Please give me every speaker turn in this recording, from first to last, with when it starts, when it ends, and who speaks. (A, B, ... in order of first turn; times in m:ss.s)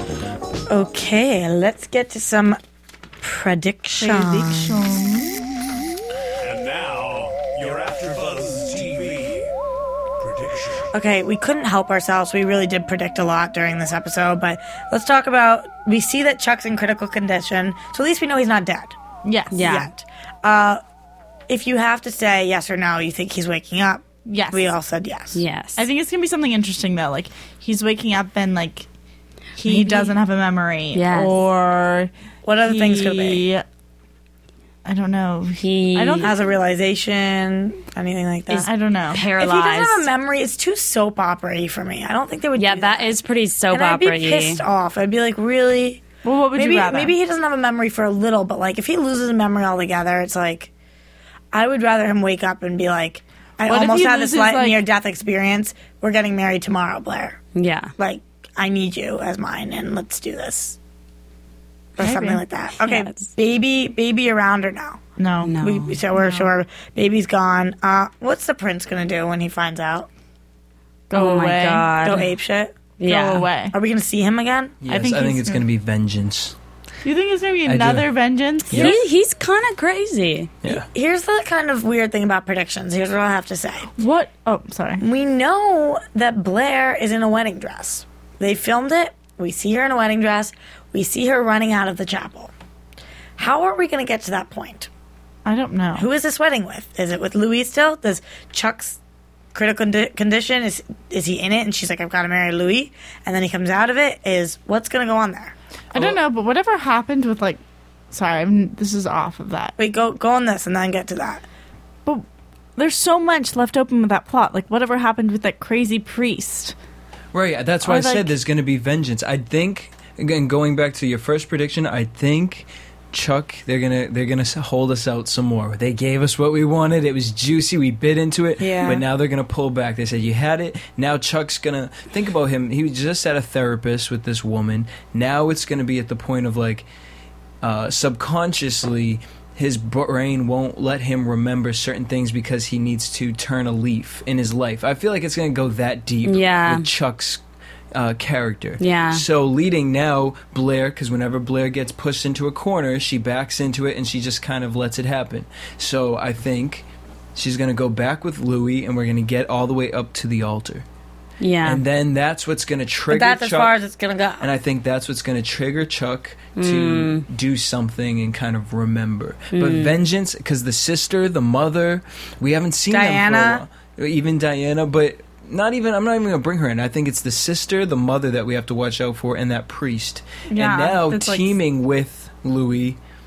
0:00.7-0:02.6 A
0:03.2-0:04.8 A
0:04.0-0:05.8 B
0:06.4-0:09.5 C
0:10.2-0:10.9 C
0:10.9-0:19.0 A
0:19.2-0:19.7 B
0:19.5-0:19.9 D
0:19.6-0:20.8 A
0:21.5-0:25.4 A
0:24.3-0:24.7 B
0:25.3-0:25.9 D
0:25.8-0:28.9 B
0:29.6-0:32.1 B
0:30.9-0:31.4 D
0:32.4-0:33.4 A
0:32.6-0:33.6 B
0:34.8-0:36.3 B
0:35.6-0:36.3 D
0:36.2-0:38.7 A
0:38.5-0:40.1 D
0:38.6-0:39.2 B
0:39.4-0:43.2 A
0:42.6-0:44.6 D
0:43.7-0:50.7 A
0:46.2-0:47.1 B
0:51.5-0:57.4 A
0:53.6-0:54.8 B
0:57.6-0:57.9 D
0:58.0-1:00.8 A
1:02.0-1:05.0 A
1:02.0-1:02.4 B
1:02.8-1:03.3 D
1:05.2-1:05.6 B
1:05.4-1:06.0 D
1:05.6-1:10.1 A
1:06.1-1:06.5 B
1:11.1-1:11.9 B
1:11.1-1:12.3 D
1:12.0-1:12.7 A
1:13.0-1:13.5 D
1:13.0-1:13.7 B
1:13.7-1:14.8 A
1:14.8-1:16.6 E
1:14.9-1:15.7 B
1:17.0-1:19.0 B
1:17.7-1:18.1 E
1:18.7-1:19.0 E
1:18.7-1:20.5 D
1:20.7-1:23.9 A
1:24.0-1:25.0 B
1:25.0-1:32.5 A
1:33.4-1:34.9 A
1:35.4-1:36.1 B
1:36.0-1:39.0 A
1:39.5-1:45.6 A
1:45.9-1:47.6 B
1:48.1-1:49.8 B
1:49.8-1:51.4 A
1:52.8-1:56.7 B
1:57.3-2:16.9 E
1:57.8-1:58.4 B
2:08.6-2:09.0 A
2:17.6-2:27.4 E
2:26.2-2:26.9 D
2:27.9-2:40.8 E
2:28.8-2:29.2 D
2:41.4-2:41.8 D
2:41.6-2:43.7 E
2:43.1-2:44.5 A
2:44.4-3:03.0 E
2:46.6-2:47.3 D
2:49.5-2:50.0 D
2:52.9-2:53.6 A
3:00.5-3:01.6 B